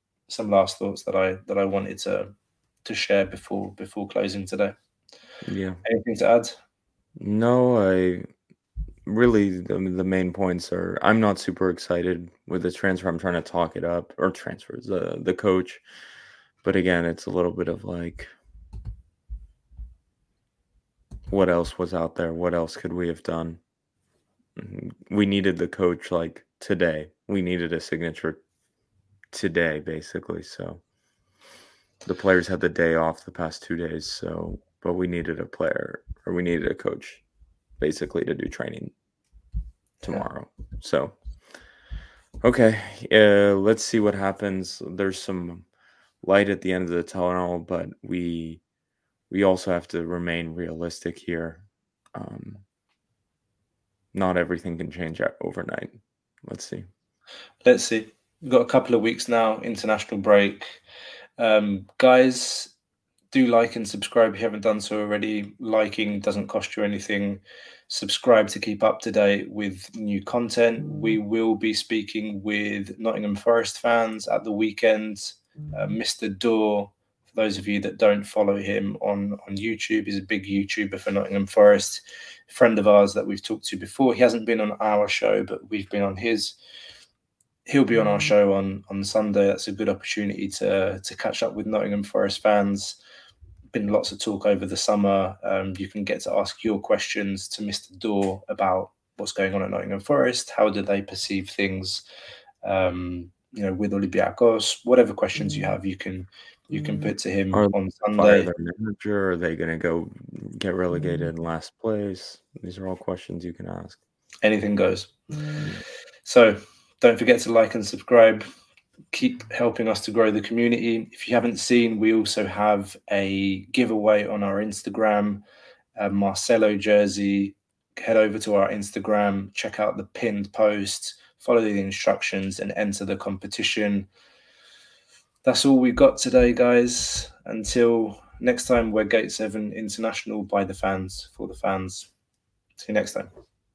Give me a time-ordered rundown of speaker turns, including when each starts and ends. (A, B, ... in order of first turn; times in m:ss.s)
0:00.3-0:02.3 A
0:02.8-0:04.8 A
0:05.4-0:05.8 B
0:05.8-0:06.5 A
0:07.2-0:08.3 B
0:09.0-0:15.8 B
0:16.6-0:18.3 B
0:21.3-0:23.6 B
0:24.6-0:28.4 B
0:29.3-0:30.8 B
0:32.0-0:37.2 B
0:37.8-0:38.9 B
0:40.0-0:41.2 B
0:42.4-0:45.6 B
0:46.2-0:48.6 B
0:49.3-0:51.6 B
0:52.1-0:52.6 B
0:54.1-0:56.9 B
0:57.6-1:00.8 A
1:01.4-1:02.7 A
1:03.3-1:26.6 A
1:27.6-1:33.0 A
1:33.7-1:42.0 A
1:42.6-1:48.5 A
1:47.5-1:54.0 B
1:54.4-1:55.6 A
1:56.2-1:58.5 A
1:59.1-2:05.4 A
2:06.0-2:14.1 A
2:15.4-2:22.1 A
2:22.8-2:23.3 A